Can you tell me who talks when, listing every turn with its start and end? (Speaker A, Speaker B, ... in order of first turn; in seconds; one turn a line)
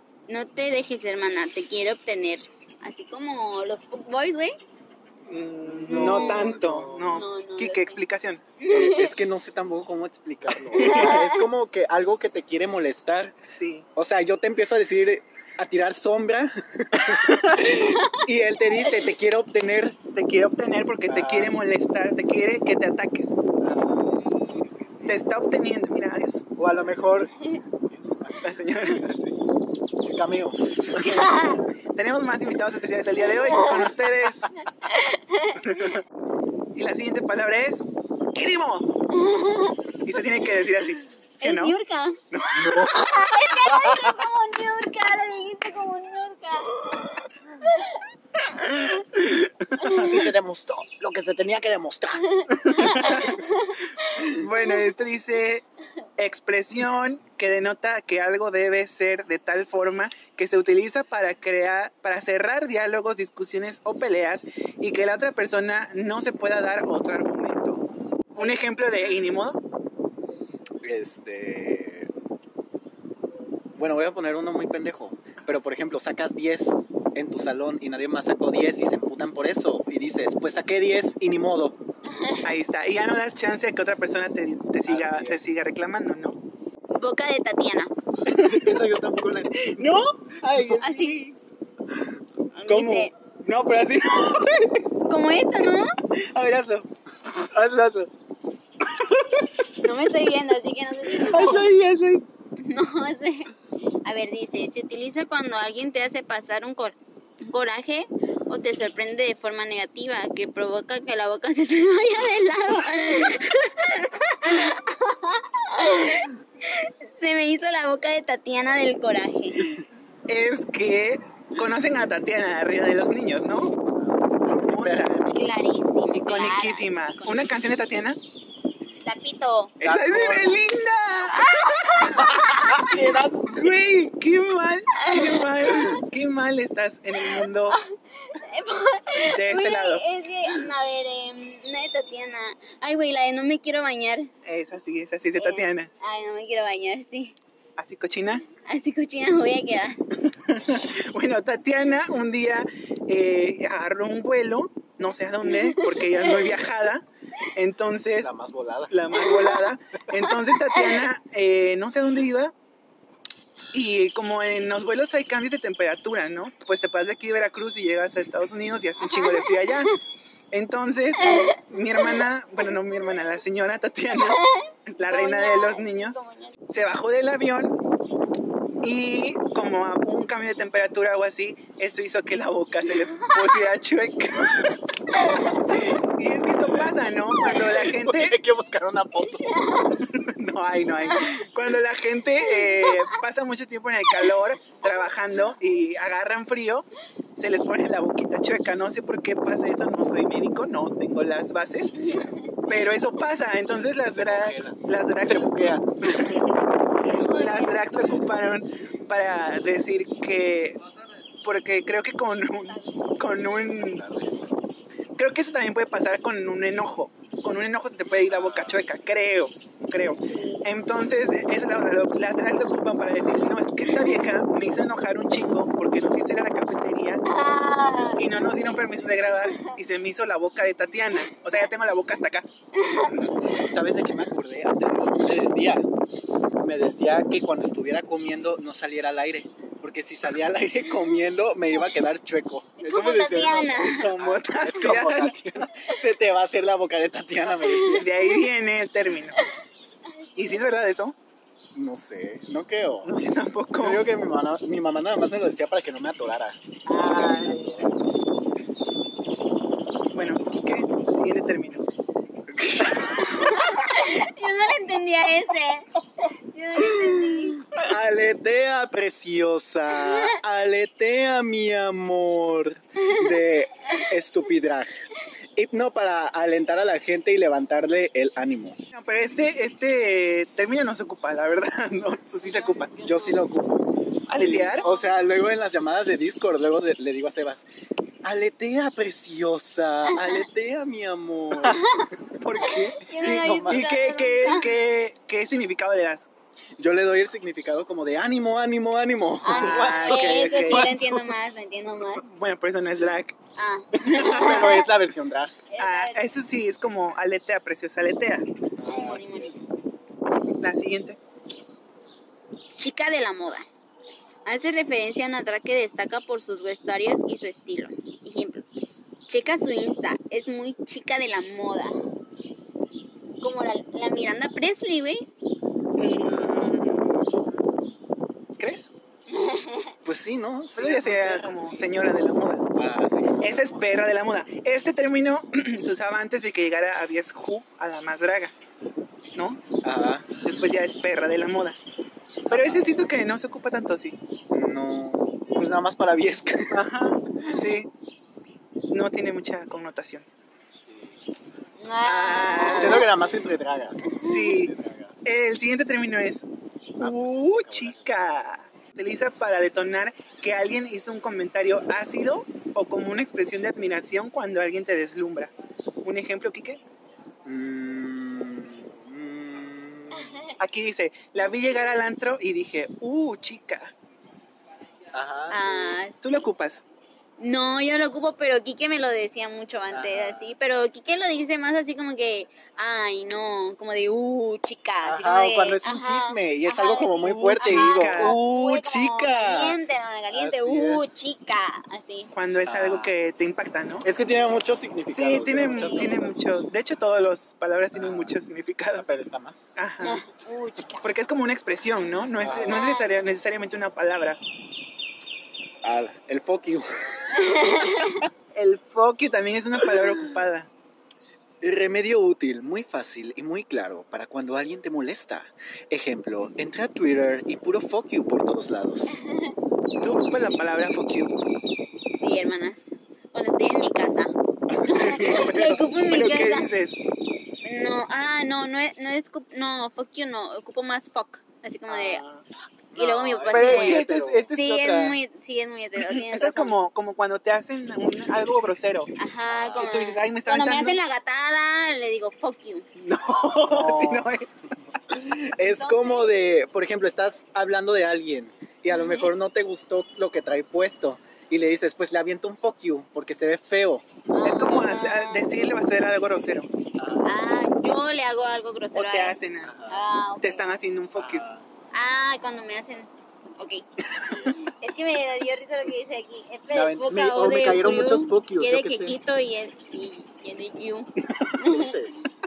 Speaker A: 0.3-4.6
Speaker B: 5.3-8.4
Speaker C: 5.7-7.2
Speaker A: 5.9-8.0
Speaker A: 8.6-9.2
Speaker C: 8.7-13.4
Speaker B: 10.7-11.1
Speaker A: 10.8-11.4
Speaker B: 13.5-13.9
Speaker C: 13.9-20.0
Speaker B: 17.1-17.6
Speaker A: 17.8-18.2
Speaker B: 20.1-23.4
Speaker C: 21.1-21.6
Speaker A: 23.6-24.7
Speaker C: 24.6-25.1
Speaker B: 25.0-26.9
Speaker C: 26.6-27.3
Speaker C: 27.9-28.6
Speaker B: 28.4-29.4
Speaker C: 30.0-31.2
Speaker B: 31.0-34.5
Speaker A: 31.1-31.6
Speaker A: 33.3-34.0
Speaker A: 34.9-35.6
Speaker B: 35.6-36.0
Speaker B: 36.8-38.9
Speaker A: 39.1-39.8
Speaker B: 40.0-41.8
Speaker A: 41.4-42.2
Speaker B: 42.3-43.1
Speaker C: 42.5-43.1
Speaker A: 42.9-48.0
Speaker C: 43.6-44.2
Speaker B: 48.5-50.2
Speaker C: 49.9-53.3
Speaker A: 52.3-54.2
Speaker B: 52.5-53.4
Speaker B: 54.2-55.6
Speaker B: 56.2-67.8
Speaker B: 68.3-69.6
Speaker C: 70.8-72.1
Speaker C: 73.8-81.8
Speaker A: 82.0-82.5
Speaker B: 82.4-86.4
Speaker C: 84.9-85.7
Speaker A: 86.9-87.9
Speaker B: 88.3-88.8
Speaker C: 88.3-89.7
Speaker B: 89.5-91.4
Speaker A: 90.8-91.2
Speaker A: 92.6-93.1
Speaker B: 92.7-94.8
Speaker A: 95.1-95.9
Speaker B: 96.1-98.1
Speaker B: 98.9-99.7
Speaker A: 99.8-101.7
Speaker B: 101.2-102.3
Speaker A: 102.6-103.5
Speaker A: 104.0-119.7
Speaker B: 120.3-123.7
Speaker C: 123.7-125.4
Speaker B: 124.6-125.3
Speaker A: 125.3-127.5
Speaker B: 126.1-128.2
Speaker C: 128.8-129.1
Speaker A: 129.0-129.8
Speaker B: 129.8-132.9
Speaker C: 129.8-130.6
Speaker A: 131.6-132.3
Speaker C: 132.1-133.6
Speaker B: 133.5-137.8
Speaker A: 135.0-136.0
Speaker A: 137.2-144.3
Speaker B: 139.3-140.1
Speaker B: 144.4-145.9
Speaker A: 145.4-147.3
Speaker B: 147.8-148.4
Speaker A: 148.7-150.0
Speaker B: 150.2-158.3
Speaker A: 155.5-156.5
Speaker C: 158.2-159.3
Speaker B: 158.9-162.5
Speaker A: 160.7-161.0
Speaker B: 163.7-169.9
Speaker A: 169.0-169.9
Speaker B: 170.5-177.8
Speaker A: 171.2-172.2
Speaker A: 174.1-176.6
Speaker B: 178.8-184.8
Speaker A: 183.2-183.6
Speaker A: 185.1-185.6
Speaker B: 185.7-188.4
Speaker C: 187.6-189.6
Speaker A: 189.3-190.0
Speaker B: 190.0-202.1
Speaker A: 191.1-191.5
Speaker A: 192.4-193.2
Speaker A: 202.0-202.9
Speaker B: 202.7-206.6
Speaker C: 204.1-206.4
Speaker A: 207.1-207.9
Speaker B: 207.1-210.8
Speaker B: 211.4-214.0
Speaker A: 212.7-213.1
Speaker C: 213.6-214.6
Speaker B: 215.2-227.2
Speaker C: 218.2-218.8
Speaker A: 220.2-220.6
Speaker A: 227.2-228.4
Speaker B: 228.2-232.5
Speaker A: 232.8-233.3
Speaker C: 233.4-235.9
Speaker C: 236.6-248.1
Speaker A: 242.8-244.1
Speaker B: 243.9-245.6
Speaker A: 247.6-248.4
Speaker B: 247.9-249.4
Speaker A: 250.2-250.6
Speaker B: 250.4-251.2
Speaker C: 251.7-253.1
Speaker B: 253.1-254.1
Speaker C: 253.8-258.1
Speaker B: 256.9-257.9
Speaker B: 260.1-261.9
Speaker C: 262.6-263.3
Speaker B: 262.8-263.2
Speaker A: 263.0-265.9
Speaker A: 266.5-267.7
Speaker C: 267.7-274.9
Speaker A: 270.0-270.4
Speaker C: 275.6-278.8
Speaker B: 278.9-282.9
Speaker A: 282.4-283.4
Speaker C: 283.0-287.7
Speaker B: 284.3-284.9
Speaker A: 284.8-285.1
Speaker C: 288.2-291.9
Speaker A: 290.1-290.4
Speaker A: 291.6-294.7
Speaker B: 292.4-296.3
Speaker C: 293.2-293.9
Speaker C: 296.8-301.3
Speaker A: 299.4-302.2
Speaker B: 299.5-301.1
Speaker B: 302.2-303.4
Speaker A: 303.6-304.9
Speaker B: 304.0-304.8
Speaker C: 304.1-305.6
Speaker A: 305.7-306.2
Speaker B: 305.8-308.5
Speaker C: 308.8-309.7
Speaker A: 308.9-309.7
Speaker B: 310.6-311.2
Speaker A: 312.8-313.6
Speaker A: 314.5-318.6
Speaker A: 319.3-322.0
Speaker A: 323.4-325.3
Speaker B: 326.0-327.3
Speaker B: 328.6-328.9
Speaker A: 329.3-329.9
Speaker C: 330.1-331.9
Speaker B: 330.8-332.7
Speaker C: 332.8-333.8
Speaker B: 333.4-338.5
Speaker B: 339.4-339.6
Speaker C: 339.8-340.3
Speaker B: 340.4-341.8
Speaker C: 342.5-343.0
Speaker B: 342.5-344.2
Speaker C: 344.5-346.8
Speaker B: 346.7-347.9
Speaker B: 348.9-350.3
Speaker C: 350.7-351.2
Speaker A: 351.8-353.1
Speaker B: 352.0-353.1
Speaker C: 352.7-355.2
Speaker A: 354.1-354.6
Speaker B: 354.2-356.5
Speaker C: 357.0-358.1
Speaker B: 357.0-365.5
Speaker B: 366.0-366.8
Speaker C: 367.4-370.5
Speaker A: 370.2-370.5
Speaker B: 370.6-373.9
Speaker C: 375.1-376.0
Speaker A: 375.5-376.4
Speaker B: 376.2-376.8
Speaker A: 377.4-392.3
Speaker C: 379.9-380.6
Speaker C: 385.0-389.8
Speaker B: 387.2-388.4
Speaker C: 390.3-391.2
Speaker B: 392.3-394.1
Speaker C: 392.6-393.1
Speaker C: 394.0-396.7
Speaker B: 395.1-399.1
Speaker A: 395.6-396.1
Speaker C: 397.9-398.4
Speaker C: 398.9-399.8
Speaker B: 399.8-400.2
Speaker A: 400.0-401.1
Speaker B: 401.0-404.4
Speaker C: 402.4-402.9
Speaker A: 402.7-403.1
Speaker C: 405.8-408.3
Speaker A: 407.3-408.2
Speaker B: 408.6-410.7
Speaker C: 409.9-410.2
Speaker C: 411.6-419.4
Speaker A: 419.1-419.5
Speaker B: 420.0-421.4
Speaker A: 422.1-424.3
Speaker B: 424.8-427.0
Speaker A: 424.9-426.7
Speaker A: 427.6-432.2
Speaker B: 431.9-432.4
Speaker C: 432.9-434.5
Speaker A: 432.9-436.8
Speaker B: 433.5-435.2
Speaker B: 436.1-439.1
Speaker A: 439.2-442.9
Speaker C: 439.5-440.0
Speaker B: 439.8-441.0
Speaker B: 443.0-444.7
Speaker C: 443.5-444.4
Speaker C: 445.1-454.1
Speaker A: 445.6-446.3
Speaker A: 448.9-449.3
Speaker A: 454.3-455.5
Speaker B: 454.4-456.7
Speaker C: 457.0-457.4
Speaker A: 457.2-459.4
Speaker B: 458.9-459.7
Speaker C: 459.6-460.1
Speaker A: 459.9-460.7
Speaker B: 460.4-461.4
Speaker C: 461.2-461.7
Speaker A: 461.9-463.9
Speaker C: 464.1-464.8
Speaker A: 464.8-472.0
Speaker C: 466.7-469.2
Speaker C: 471.6-472.2